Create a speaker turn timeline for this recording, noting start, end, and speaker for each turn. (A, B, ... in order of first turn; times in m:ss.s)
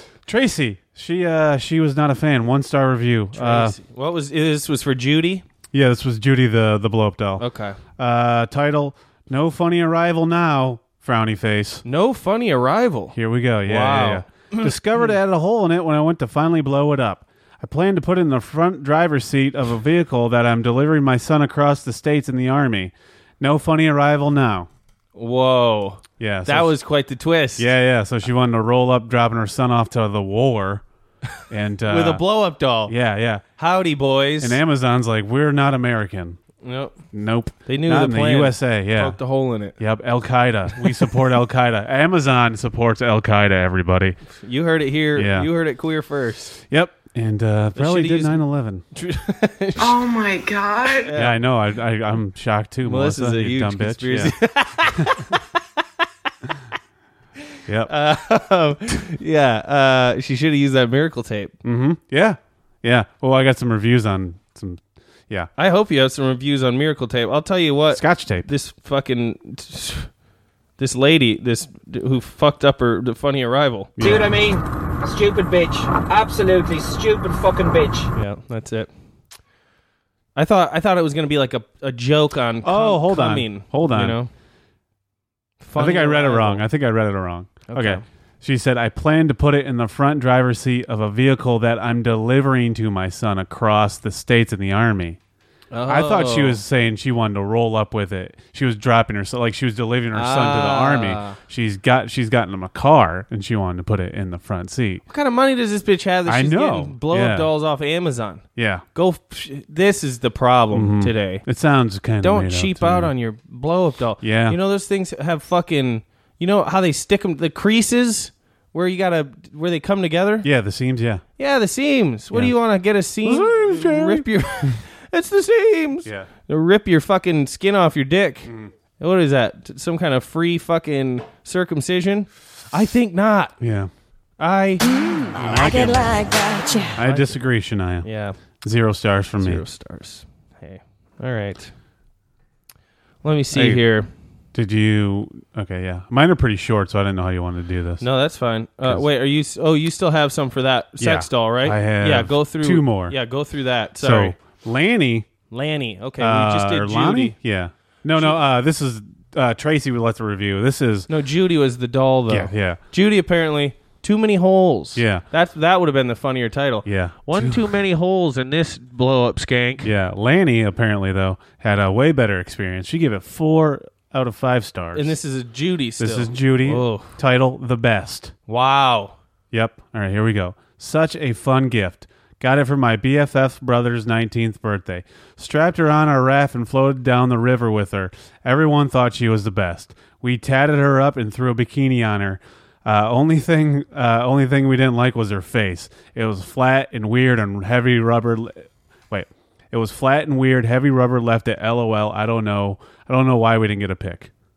0:00.3-0:03.8 A
0:03.3-0:05.4 B
0:05.7-0:07.4 A
0:07.4-0:07.8 B
0:08.0-0:11.8 A
0:11.8-0:15.1 B
0:13.1-0:24.7 A
0:25.2-0:27.7 B
0:26.2-0:26.7 A
0:27.6-0:30.8 A
0:31.5-0:32.2 A
0:31.9-0:33.0 B
0:32.9-0:33.4 A
0:33.6-0:34.6 B
0:34.4-0:36.4 A
0:36.6-0:37.0 B
0:37.1-0:44.2 A
0:37.7-0:39.8 B
0:44.4-0:46.6 B
0:45.2-0:45.5 A
0:46.7-0:48.8 A
0:47.8-0:50.2 B
0:50.9-0:51.4 B
0:51.1-0:55.1 A
0:52.8-0:55.4 B
0:57.7-0:57.9 A
0:57.9-1:01.6 B
1:01.6-1:05.5 A
1:05.6-1:10.1 B
1:07.9-1:08.5 A
1:10.8-1:14.0 B
1:14.0-1:14.4 A
1:14.0-1:18.1 C
1:18.2-1:18.9 B
1:20.4-1:24.3 B
1:22.6-1:24.2 A
1:25.6-1:26.6 B
1:25.8-1:35.2 A
1:27.7-1:28.0 B
1:35.7-1:36.6 B
1:35.9-1:45.0 A
1:40.1-1:41.4 B
1:45.1-1:51.4 B
1:46.3-1:47.5 A
1:48.6-1:48.8 A
1:50.7-1:53.1 A
1:52.2-2:00.5 B
1:54.2-1:54.6 A
2:00.4-2:01.2 A
2:01.4-2:13.6 B
2:03.2-2:04.8 A
2:08.5-2:08.7 A
2:13.6-2:13.9 A
2:14.4-2:14.8 B
2:15.3-2:16.2 A
2:15.4-2:16.2 B
2:16.9-2:18.1 A
2:17.0-2:17.4 B
2:18.0-2:18.4 B
2:18.6-2:19.6 A
2:19.4-2:21.7 B
2:23.2-2:24.1 B
2:23.5-2:23.8 A
2:24.5-2:28.0 A
2:28.0-2:34.4 B
2:31.0-2:33.2 A
2:34.0-2:35.3 A
2:35.5-2:37.4 B
2:36.2-2:41.1 A
2:38.1-2:38.4 B
2:41.1-2:49.9 B
2:42.3-2:42.8 A
2:45.0-2:45.2 A
2:46.8-2:47.6 A
2:49.8-2:55.2 A
2:54.9-2:57.1 B
2:56.0-2:58.3 A
2:58.5-2:59.1 B
2:59.5-3:24.3 A